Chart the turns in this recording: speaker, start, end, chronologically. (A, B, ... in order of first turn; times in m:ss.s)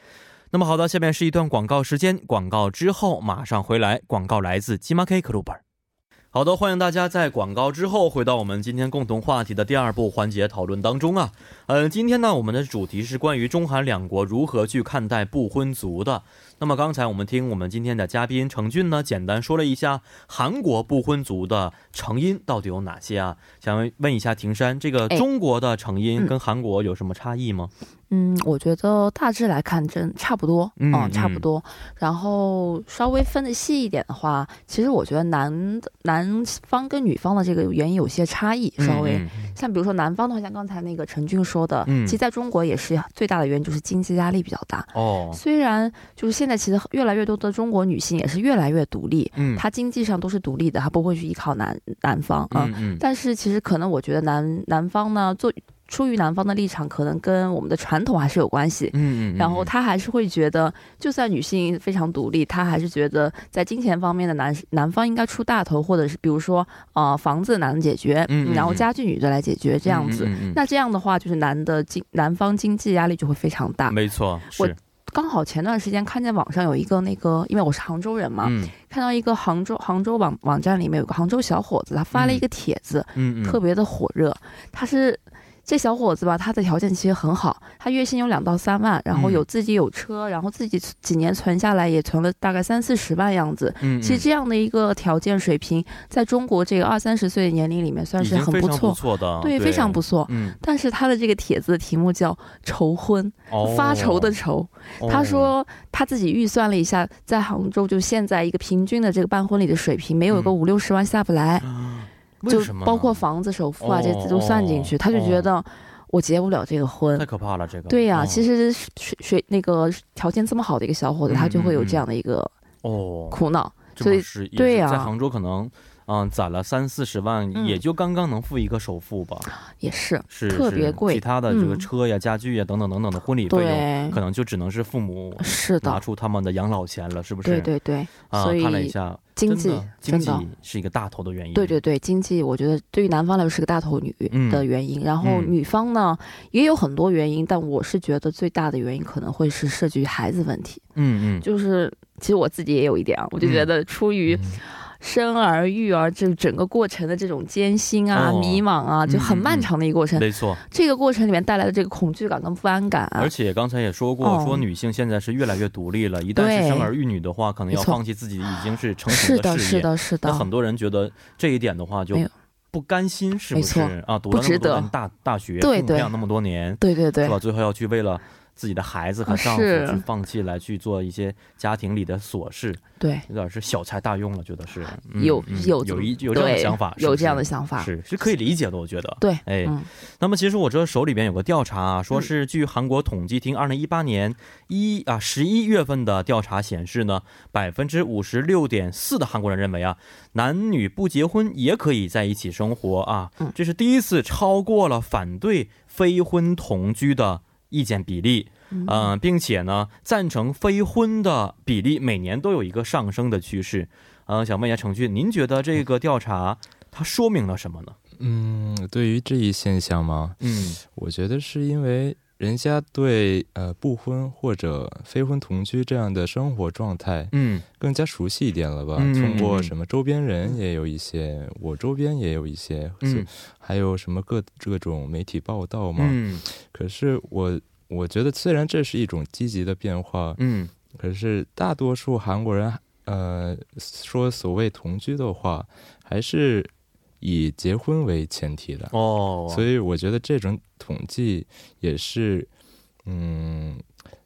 0:00.5-0:05.6 A
0:06.3-0:27.7 A
0:28.1-1:14.0 B
0:30.8-0:31.4 A
0:38.8-0:39.5 A
0:41.9-0:42.2 A
0:44.9-0:45.4 A
0:49.4-0:49.6 A
0:52.5-0:53.0 A
0:58.9-0:59.7 A
1:08.3-1:08.9 A
1:09.9-1:10.6 A
1:13.9-1:14.8 A
1:14.5-1:51.7 B
1:18.4-1:18.7 A
1:22.1-1:22.4 A
1:23.2-1:23.6 A
1:29.1-1:29.4 A
1:33.8-1:34.3 A
1:38.2-1:40.6 A
1:43.5-1:44.4 A
1:45.0-1:45.5 A
1:51.6-1:53.2 A
1:52.5-1:57.3 B
1:53.8-1:55.5 A
1:57.2-1:58.5 A
1:57.9-2:02.5 B
2:01.3-2:02.0 A
2:02.8-2:03.4 A
2:03.3-2:05.1 B
2:04.0-2:09.5 A
2:07.6-2:07.8 B
2:09.8-2:11.9 B
2:10.3-2:17.7 A
2:13.5-2:14.2 B
2:15.4-2:16.0 B
2:17.4-2:20.4 B
2:18.3-2:21.8 A
2:21.6-2:30.8 B
2:24.3-2:24.7 A
2:25.2-2:25.5 A
2:31.0-2:31.5 A
2:31.4-2:43.3 B
2:33.4-2:33.7 A
2:34.3-2:34.6 C
2:38.1-2:40.6 A
2:43.2-3:38.0 A
2:44.2-2:44.6 B
2:46.4-2:46.9 B
2:47.7-2:48.0 B
2:49.1-2:50.5 B
2:53.5-2:54.9 B
2:55.6-2:56.1 B
2:56.8-2:57.4 B
2:59.3-3:00.0 B
3:03.0-3:03.2 B
3:05.1-3:07.9 B
3:09.2-3:09.9 B
3:28.7-3:29.1 B
3:38.2-4:00.4 C
3:40.4-3:40.8 A
3:47.3-3:47.6 A
3:49.0-3:49.7 A
3:56.0-3:56.4 A
4:00.4-4:00.7 A
4:00.9-4:08.9 C
4:08.9-4:09.7 A
4:09.5-4:12.5 C
4:13.0-4:13.8 C